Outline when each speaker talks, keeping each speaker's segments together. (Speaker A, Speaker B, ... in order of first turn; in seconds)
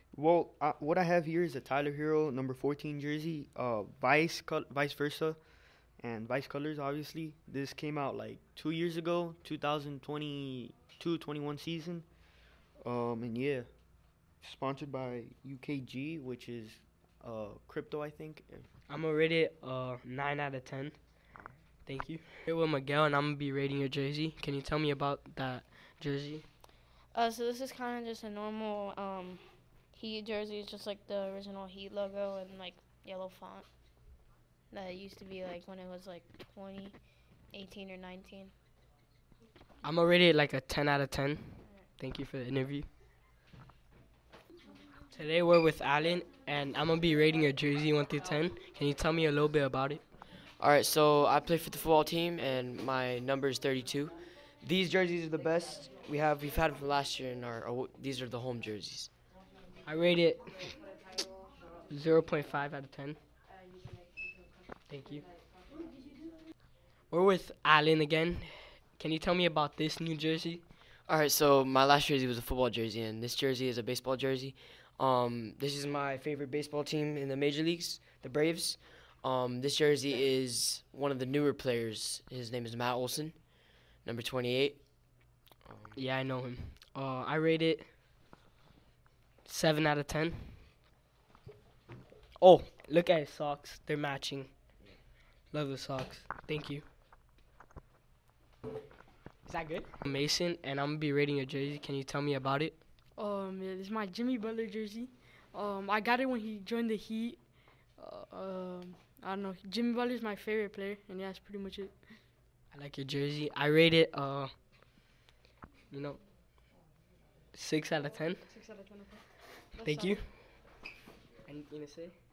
Speaker A: 0.1-18.7, 21.3-21.6
Speaker B: 18.9-21.2, 21.8-26.4, 39.8-42.9, 45.1-50.1, 59.8-60.8, 61.9-63.2, 64.9-65.2, 67.1-70.7, 85.9-87.9, 89.4-90.6, 92.4-94.9, 95.5-96.8, 99.4-102.8, 112.7-114.6, 115.9-116.2, 117.5-118.4, 119.8-120.6, 121.4-122.2
Speaker C: 27.1-33.7, 34.7-38.5
Speaker D: 50.5-59.1, 71.0-86.0
Speaker E: 103.1-112.2, 118.4-120.2